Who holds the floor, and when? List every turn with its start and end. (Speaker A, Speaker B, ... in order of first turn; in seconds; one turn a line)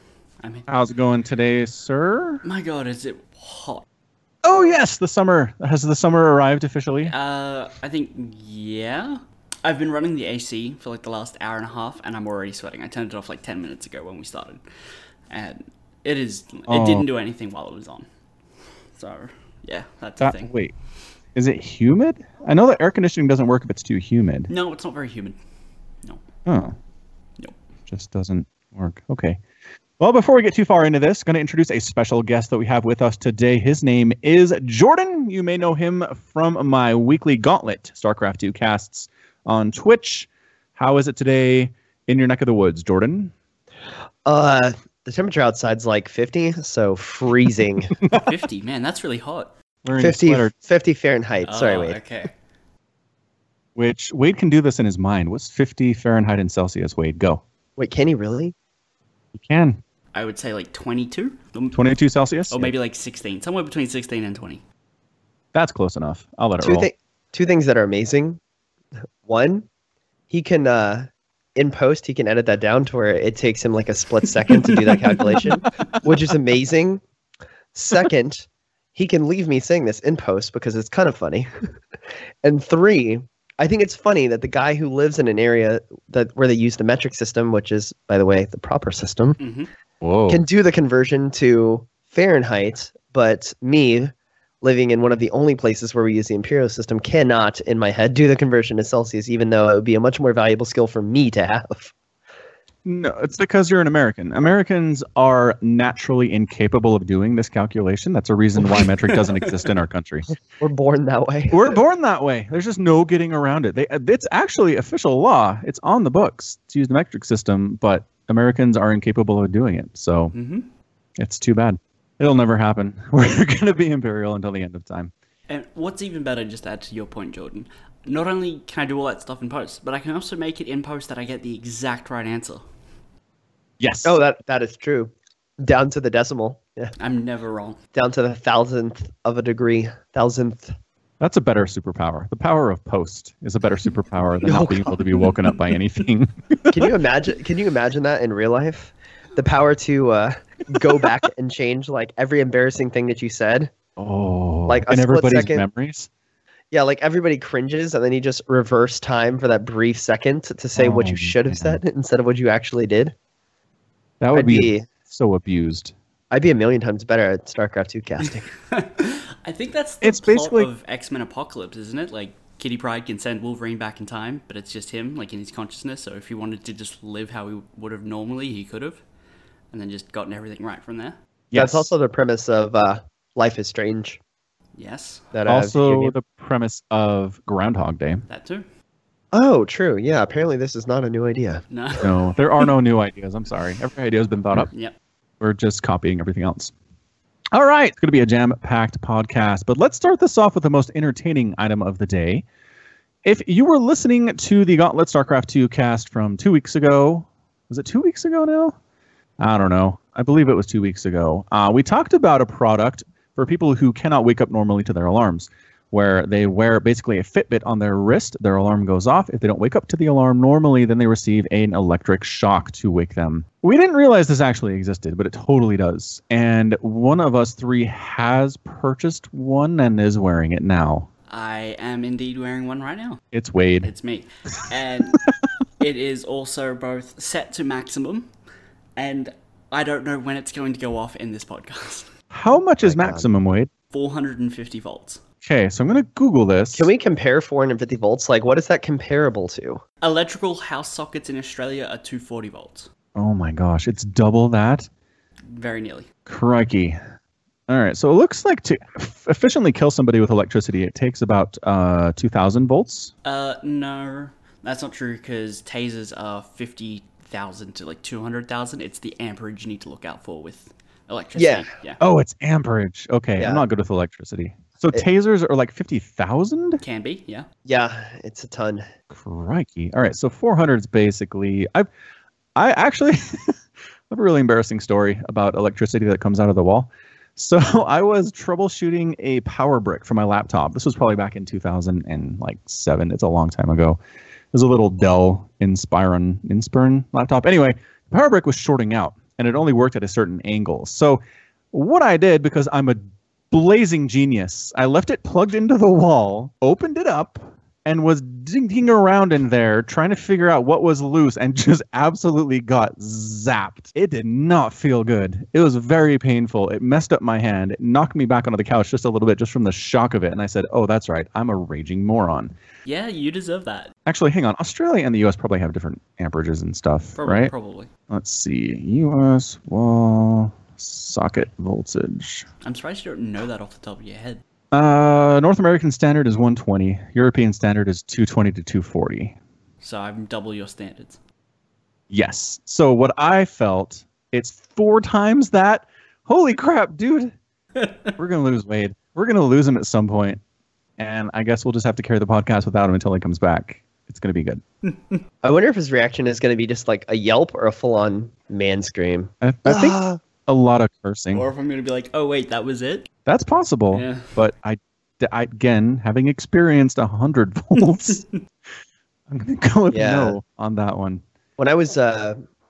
Speaker A: 0.4-0.7
Speaker B: 0.7-2.4
Speaker A: 2.4-3.8
Speaker B: 4.4-7.1
Speaker A: 7.0-14.6
Speaker A: 15.3-18.1
Speaker B: 16.7-17.1
Speaker A: 18.9-20.5
Speaker B: 20.2-20.7
Speaker B: 21.3-24.5
Speaker A: 24.5-25.4
Speaker B: 26.4-26.8
Speaker B: 27.9-29.4
Speaker B: 30.0-43.3
Speaker C: 44.2-47.9
Speaker A: 48.1-49.5
Speaker B: 49.8-50.5
Speaker C: 50.0-52.0
Speaker A: 51.5-52.3
Speaker B: 53.8-57.4
Speaker C: 57.8-58.5
Speaker B: 59.4-59.8
Speaker A: 60.1-61.8
Speaker B: 61.7-62.7
Speaker A: 62.5-64.6
Speaker B: 65.5-66.9
Speaker C: 66.6-68.4
Speaker C: 69.2-69.7
Speaker C: 70.3-77.0
Speaker C: 77.7-81.5
Speaker C: 82.4-89.4
Speaker A: 89.4-89.7
Speaker B: 90.0-90.4
Speaker C: 90.3-101.9
Speaker B: 102.8-110.3
Speaker A: 108.6-109.7
Speaker C: 110.6-111.8
Speaker B: 111.5-120.3
Speaker A: 120.3-120.7
Speaker B: 121.2-125.1
Speaker A: 125.5-132.6
Speaker B: 133.8-134.2
Speaker C: 134.0-136.9
Speaker A: 137.0-137.8
Speaker C: 137.9-140.7
Speaker B: 141.2-146.9
Speaker C: 144.4-145.0
Speaker C: 146.7-153.7
Speaker B: 154.0-156.1
Speaker C: 154.7-155.6
Speaker C: 156.7-163.1
Speaker B: 160.8-161.8
Speaker B: 164.2-165.9
Speaker C: 164.3-164.9
Speaker C: 166.3-168.5
Speaker A: 168.2-179.0
Speaker B: 170.0-170.7
Speaker A: 179.7-181.2
Speaker B: 181.5-181.9
Speaker C: 181.5-184.2
Speaker A: 184.8-185.3
Speaker C: 185.3-186.1
Speaker B: 185.5-188.2
Speaker A: 188.3-188.7
Speaker C: 189.3-191.6
Speaker A: 191.7-192.1
Speaker B: 192.0-194.7
Speaker B: 195.4-196.7
Speaker B: 197.5-202.4
Speaker B: 203.2-208.7
Speaker B: 209.4-231.1
Speaker A: 231.3-233.2
Speaker B: 233.3-233.9
Speaker A: 233.8-235.2
Speaker A: 235.8-238.3
Speaker A: 239.0-242.1
Speaker B: 242.3-243.7
Speaker C: 242.8-243.3
Speaker A: 243.9-245.2
Speaker B: 245.4-246.9
Speaker C: 246.7-249.8
Speaker A: 250.0-252.9
Speaker B: 253.2-254.9
Speaker A: 255.5-256.1
Speaker B: 256.3-257.0
Speaker B: 257.7-263.1
Speaker A: 263.2-272.0
Speaker C: 271.4-271.7
Speaker B: 272.0-276.8
Speaker C: 273.4-273.6
Speaker A: 276.8-277.5
Speaker C: 277.6-278.9
Speaker B: 279.1-281.9
Speaker B: 282.6-283.6
Speaker B: 284.1-294.0
Speaker B: 294.5-301.2
Speaker B: 301.7-322.5
Speaker A: 322.8-323.9
Speaker B: 324.1-327.5
Speaker A: 327.2-327.9
Speaker B: 328.1-332.5
Speaker A: 332.6-334.4
Speaker B: 334.7-339.4
Speaker A: 339.8-341.2
Speaker B: 342.1-347.3
Speaker A: 347.8-348.1
Speaker B: 348.2-350.4
Speaker B: 351.0-354.6
Speaker A: 354.9-355.2
Speaker C: 355.4-360.2
Speaker B: 359.4-361.4
Speaker A: 361.3-363.1
Speaker B: 363.2-368.2
Speaker A: 363.9-364.3
Speaker B: 369.3-371.2
Speaker C: 369.9-370.4
Speaker C: 371.6-372.4